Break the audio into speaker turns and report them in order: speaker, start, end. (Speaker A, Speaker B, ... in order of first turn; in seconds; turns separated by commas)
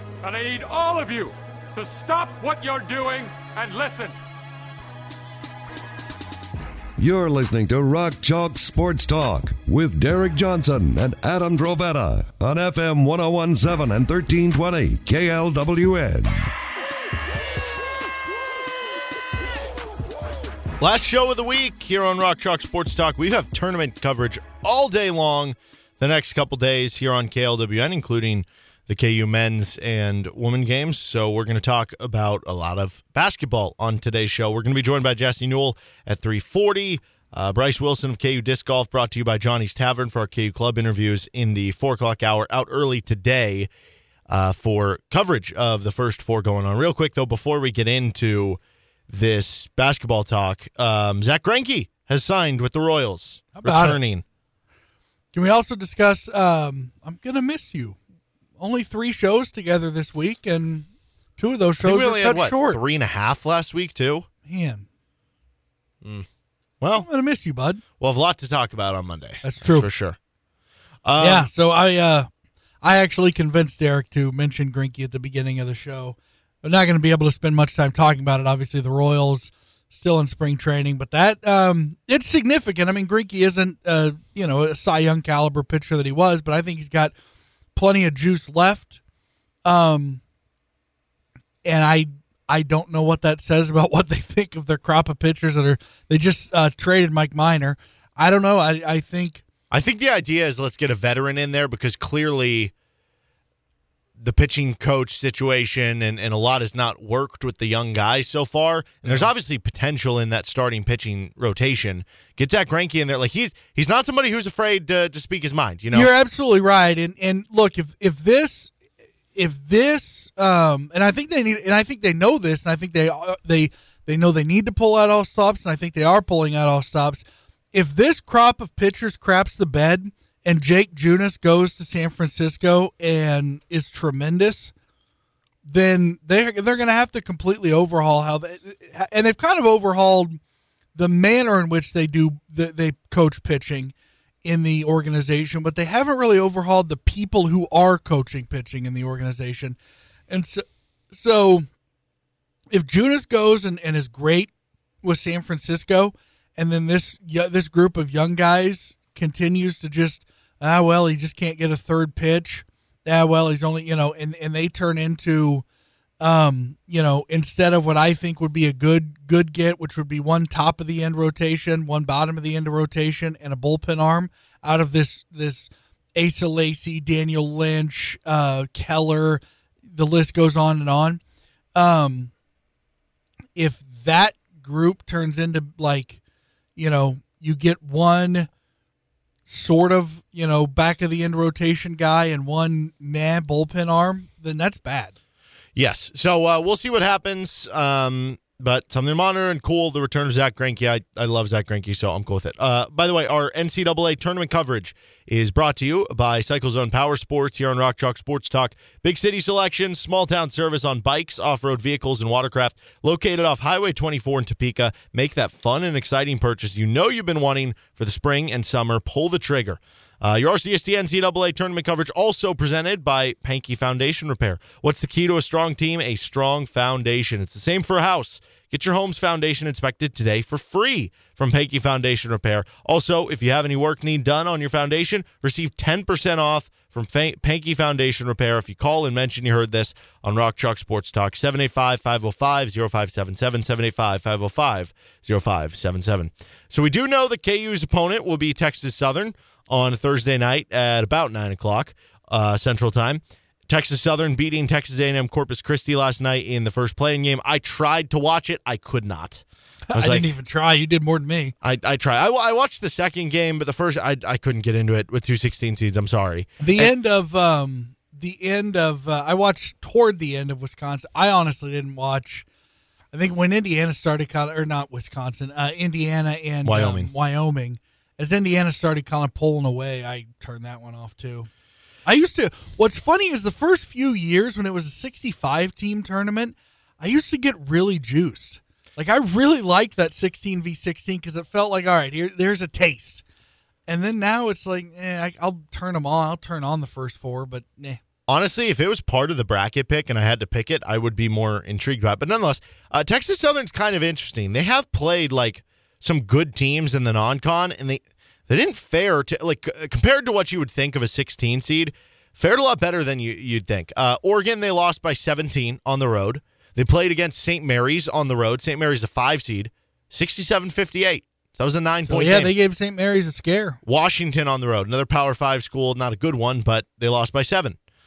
Speaker A: 0.2-4.1, Speaker B: 7.0-16.4, Speaker C: 20.8-43.7, Speaker C: 44.3-54.2, Speaker D: 53.5-54.0, Speaker D: 55.3-58.0, Speaker D: 58.6-62.8, Speaker C: 61.8-64.3, Speaker D: 64.4-64.8, Speaker C: 66.0-66.3, Speaker C: 66.8-67.1, Speaker D: 66.9-67.8, Speaker C: 68.0-70.2, Speaker D: 69.4-69.9, Speaker C: 71.0-71.5, Speaker D: 71.2-72.3, Speaker D: 72.8-87.1, Speaker D: 87.7-89.0, Speaker D: 89.7-90.2, Speaker D: 91.6-99.4, Speaker C: 99.7-102.7, Speaker C: 104.2-116.1, Speaker D: 109.0-109.3, Speaker D: 115.9-118.7, Speaker D: 119.3-134.7, Speaker D: 135.7-140.4, Speaker D: 140.9-149.8, Speaker D: 150.3-151.7, Speaker D: 152.7-154.5, Speaker D: 155.0-165.6, Speaker D: 166.2-181.2, Speaker D: 181.8-182.3, Speaker D: 183.6-186.2, Speaker D: 186.8-188.5, Speaker D: 189.4-195.2, Speaker C: 195.8-260.3, Speaker D: 259.9-261.5, Speaker C: 261.6-266.9, Speaker D: 266.6-272.4, Speaker D: 273.1-281.5, Speaker C: 276.6-277.1, Speaker D: 282.1-293.2, Speaker D: 293.9-298.0, Speaker C: 298.3-322.5, Speaker D: 322.1-323.8, Speaker C: 323.8-327.8